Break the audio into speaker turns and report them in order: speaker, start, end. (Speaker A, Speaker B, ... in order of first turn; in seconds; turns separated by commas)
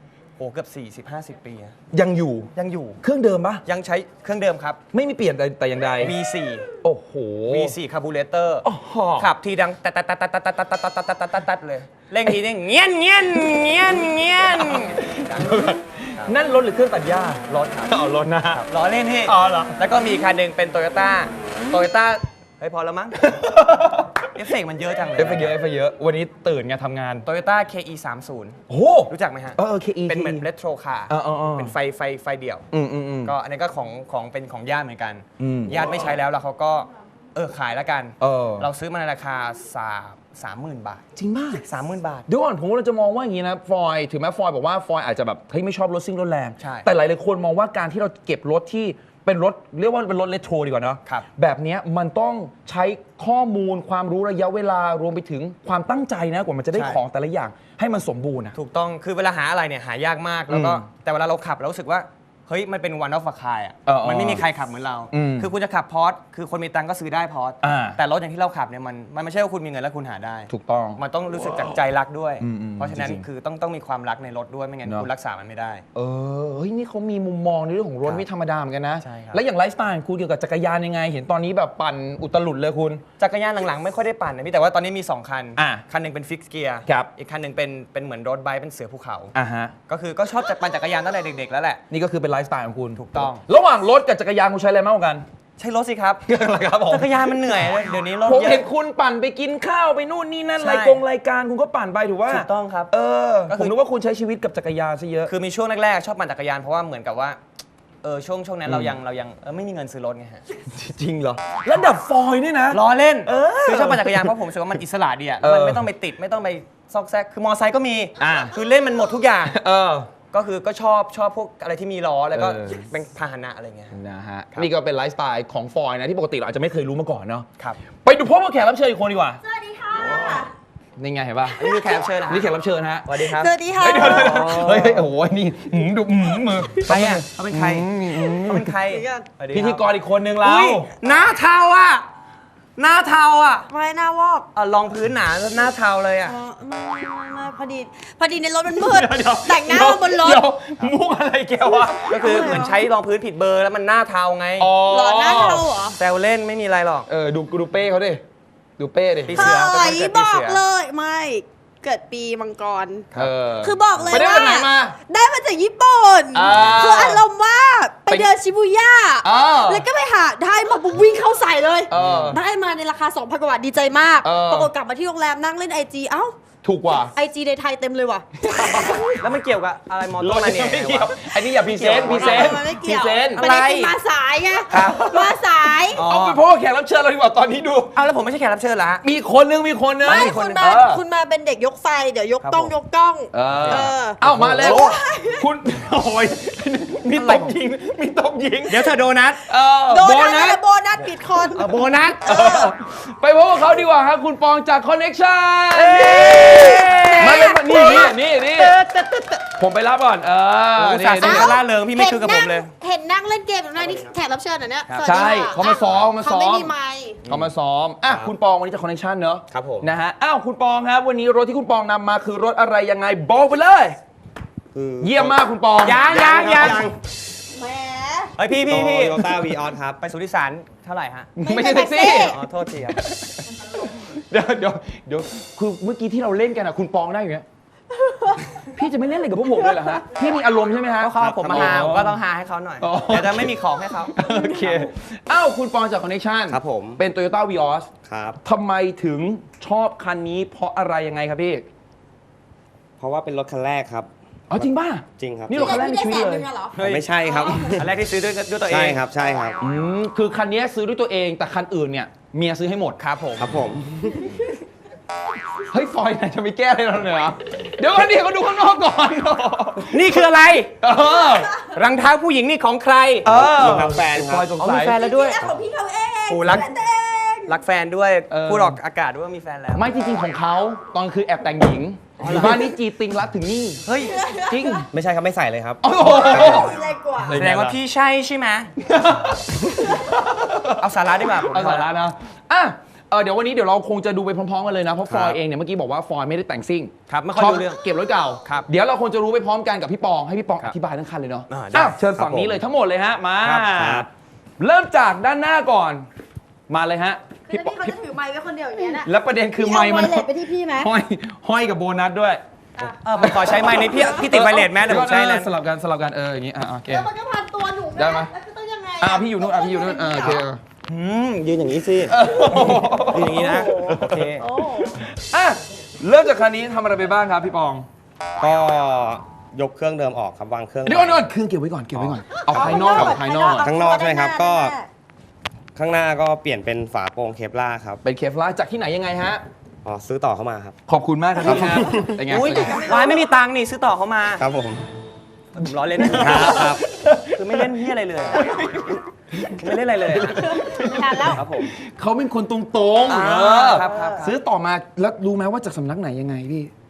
Speaker A: 0.4-1.8, Speaker B: 1.9-3.6, Speaker A: 2.5-3.0, Speaker A: 3.6-4.8, Speaker B: 4.9-6.2, Speaker A: 6.0-6.7, Speaker B: 6.8-7.8, Speaker A: 7.5-16.4, Speaker B: 8.6-9.3, Speaker B: 14.4-18.6, Speaker A: 17.4-23.4, Speaker B: 19.2-19.8, Speaker B: 23.2-24.3, Speaker A: 24.2-25.6, Speaker B: 25.2-27.2, Speaker A: 27.2-28.6, Speaker B: 28.7-30.5, Speaker A: 29.1-32.7, Speaker B: 31.1-31.8, Speaker B: 32.7-33.3, Speaker A: 33.2-42.3, Speaker B: 35.4-35.9, Speaker B: 38.2-38.7, Speaker B: 41.2-41.6, Speaker B: 42.3-58.6, Speaker A: 46.6-46.9, Speaker A: 51.0-51.3, Speaker A: 56.7-57.0, Speaker A: 58.5-75.8, Speaker B: 60.5-60.9, Speaker B: 63.9-64.5, Speaker B: 65.1-65.5, Speaker B: 67.6-68.0, Speaker B: 70.5-71.8, Speaker B: 72.4-73.2, Speaker B: 74.8-75.1, Speaker B: 75.9-83.0, Speaker A: 78.0-78.3, Speaker A: 79.0-79.4, Speaker A: 83.2-89.3, Speaker B: 85.6-85.8, Speaker B: 89.3-89.8, Speaker A: 89.9-91.8, Speaker B: 91.9-95.2, Speaker A: 92.9-93.5, Speaker A: 95.6-96.3, Speaker B: 96.2-97.7, Speaker A: 96.8-98.7, Speaker B: 98.2-105.3, Speaker A: 100.6-101.0, Speaker A: 102.2-102.9, Speaker A: 103.5-103.8, Speaker A: 105.2-107.4, Speaker A: 108.0-110.4, Speaker B: 108.7-108.9, Speaker B: 110.5-114.3, Speaker A: 112.7-119.6, Speaker B: 115.4-115.9, Speaker B: 118.2-118.5, Speaker B: 119.5-120.1, Speaker A: 120.3-124.0, Speaker B: 122.3-122.9, Speaker B: 123.9-127.5, Speaker B: 128.0-129.4, Speaker C: 129.4-130.5, Speaker A: 130.1-130.4, Speaker B: 131.0-133.2, Speaker A: 131.5-133.6, Speaker C: 133.2-134.9, Speaker B: 133.8-138.8, Speaker A: 134.3-135.1, Speaker C: 136.2-136.8, Speaker A: 136.8-142.1, Speaker C: 138.8-139.3, Speaker B: 139.5-140.9, Speaker A: 142.8-143.7, Speaker C: 143.7-144.5, Speaker A: 144.5-146.4, Speaker C: 146.2-150.5, Speaker A: 148.9-149.4, Speaker B: 149.2-152.8, Speaker C: 151.7-152.8, Speaker A: 152.1-154.8, Speaker B: 154.6-155.7, Speaker C: 154.8-156.0, Speaker A: 156.0-157.1, Speaker B: 157.1-158.2, Speaker B: 158.8-159.6, Speaker A: 159.2-160.6, Speaker C: 159.3-163.1, Speaker B: 163.2-165.0, Speaker C: 163.6-176.4, Speaker A: 163.9-164.2, Speaker B: 166.3-167.2, Speaker B: 168.1-168.3, Speaker B: 169.2-169.9, Speaker B: 171.9-172.4, Speaker D: 172.0-172.3, Speaker B: 174.2-174.7, Speaker B: 176.6-177.1, Speaker C: 176.9-179.2, Speaker B: 178.4-179.1, Speaker A: 179.2-182.7, Speaker B: 180.2-183.5, Speaker C: 182.0-186.1, Speaker A: 183.3-183.9, Speaker B: 184.7-185.4, Speaker B: 185.9-187.9, Speaker A: 186.0-186.4, Speaker A: 187.9-189.1, Speaker B: 189.0-191.0, Speaker A: 190.0-190.7, Speaker C: 190.0-195.5, Speaker A: 192.4-192.7, Speaker B: 193.3-198.9, Speaker A: 193.5-194.9, Speaker A: 197.2-197.6, Speaker A: 198.7-199.4, Speaker B: 199.5-200.6, Speaker C: 199.8-201.7, Speaker A: 201.0-202.3, Speaker B: 202.2-208.8, Speaker C: 202.3-202.7, Speaker A: 205.8-209.5, Speaker C: 205.8-208.1, Speaker B: 209.6-211.6, Speaker A: 210.8-212.7, Speaker C: 211.2-217.2, Speaker A: 214.9-215.3, Speaker B: 215.0-216.7, Speaker B: 217.3-224.0, Speaker D: 218.1-218.3, Speaker D: 219.5-219.9, Speaker D: 224.7-227.0, Speaker B: 225.0-226.1, Speaker A: 225.8-226.9, Speaker C: 227.5-228.3, Speaker A: 228.4-231.4, Speaker D: 228.7-230.0, Speaker B: 231.4-232.4, Speaker C: 231.4-232.4, Speaker A: 232.2-233.0, Speaker B: 232.9-237.4, Speaker C: 237.9-238.8, Speaker B: 238.7-242.2, Speaker C: 239.6-240.2, Speaker A: 241.0-244.9, Speaker D: 241.1-242.0, Speaker B: 242.8-243.5, Speaker B: 244.1-247.9, Speaker D: 246.5-247.0, Speaker D: 248.0-248.4, Speaker B: 248.4-251.6, Speaker D: 253.0-255.8, Speaker B: 254.5-256.5, Speaker C: 255.5-257.8, Speaker A: 256.8-257.1, Speaker D: 256.8-257.9, Speaker A: 257.7-259.0, Speaker D: 258.6-259.6, Speaker B: 259.6-263.0, Speaker A: 263.0-263.5, Speaker D: 263.4-264.3, Speaker B: 265.7-270.2, Speaker A: 269.8-270.9, Speaker B: 270.8-271.5, Speaker C: 271.0-271.7, Speaker A: 271.6-273.3, Speaker D: 273.2-274.5, Speaker B: 273.2-275.0, Speaker A: 274.6-275.6, Speaker C: 274.9-277.6, Speaker A: 276.3-276.7, Speaker A: 277.5-279.9, Speaker B: 278.3-278.8, Speaker B: 279.8-283.9, Speaker A: 282.2-282.7, Speaker A: 283.8-284.2, Speaker C: 284.0-284.8, Speaker B: 284.5-284.9, Speaker D: 284.9-286.8, Speaker B: 285.8-286.8, Speaker C: 286.1-287.4, Speaker A: 286.3-286.6, Speaker D: 287.3-287.8, Speaker A: 287.3-288.8, Speaker B: 288.8-290.9, Speaker A: 290.8-292.0, Speaker B: 291.4-304.1, Speaker D: 295.1-295.4, Speaker A: 297.1-297.8, Speaker A: 301.5-302.0, Speaker D: 302.1-302.6, Speaker A: 303.4-303.7, Speaker D: 303.7-304.1, Speaker B: 304.6-306.1, Speaker B: 306.7-308.0, Speaker C: 307.4-310.9, Speaker B: 309.0-312.4, Speaker C: 312.8-314.4, Speaker A: 313.0-315.5, Speaker B: 313.2-317.1, Speaker C: 316.9-320.4, Speaker B: 318.0-318.3, Speaker B: 319.0-320.6, Speaker A: 320.9-324.5, Speaker B: 322.1-324.3, Speaker C: 323.2-325.0, Speaker B: 324.9-327.9, Speaker D: 328.4-331.3, Speaker B: 330.9-333.7, Speaker D: 331.9-334.8, Speaker C: 332.5-334.9, Speaker D: 335.8-338.0, Speaker B: 338.0-339.4, Speaker D: 339.8-340.8, Speaker B: 340.9-342.8, Speaker D: 341.4-342.2, Speaker C: 341.7-342.0, Speaker A: 342.2-344.4, Speaker D: 344.4-344.8, Speaker A: 345.5-346.8, Speaker B: 346.0-347.7, Speaker D: 346.1-346.8, Speaker A: 347.3-348.4, Speaker B: 348.4-356.7, Speaker A: 349.5-350.5, Speaker C: 350.4-351.4, Speaker D: 351.3-351.7, Speaker A: 353.1-354.4, Speaker C: 353.8-354.3